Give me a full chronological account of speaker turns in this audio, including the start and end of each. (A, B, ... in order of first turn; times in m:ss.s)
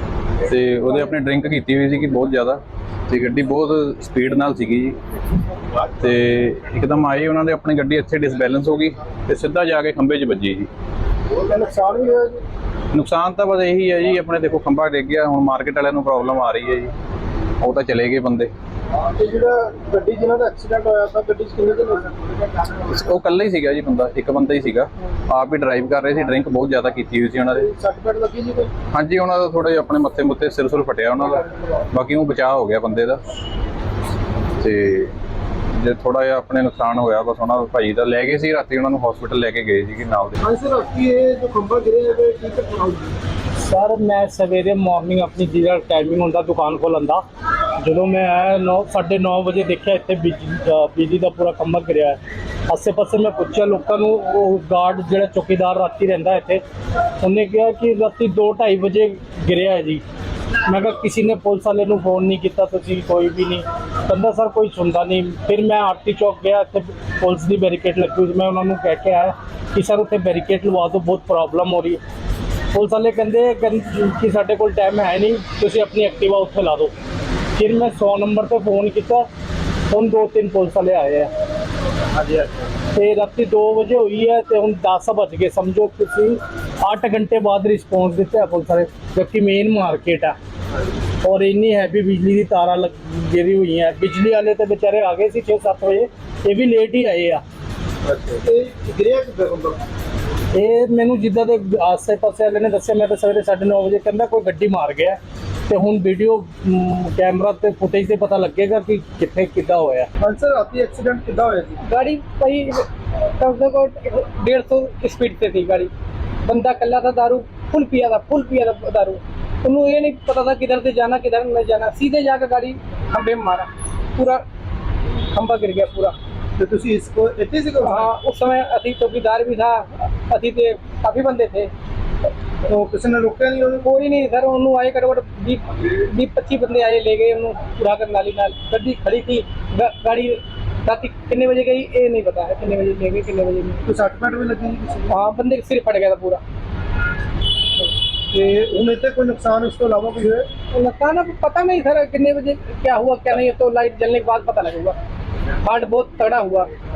0:00.4-0:05.0 A
0:06.0-0:10.7 A
0:11.4-0:12.4 B
0:12.9-0:16.9 A
0:17.6-0:18.5 A
0:19.1-0:22.8 B
0:22.9-0:27.7 A
0:27.6-0:28.7 B
0:28.9-0:33.2 A
0:34.6-0:35.1 A
0:35.7-0:40.4 A
0:40.4-0:43.1 B
0:43.6-0:47.2 C
0:47.8-0:56.6 C
0:57.2-1:00.0 C
1:00.6-1:12.0 C
1:12.7-1:16.9 C
1:17.5-1:19.3 C
1:19.9-1:21.3 C
1:22.2-1:22.5 B
1:22.9-1:30.4 C
1:31.2-1:37.4 C
1:38.1-1:39.8 B
1:40.5-1:50.1 C
1:50.2-1:51.8 B
1:51.8-1:55.9 D
1:56.5-2:04.4 D
2:05.3-2:06.1 D
2:06.6-2:08.1 B
2:07.9-2:11.7 D
2:12.6-2:13.9 B
2:13.8-2:23.8 D
2:23.9-2:25.1 B
2:25.1-2:26.4 D
2:28.3-2:30.5 B
2:30.7-2:35.0 D
2:35.6-2:36.7 D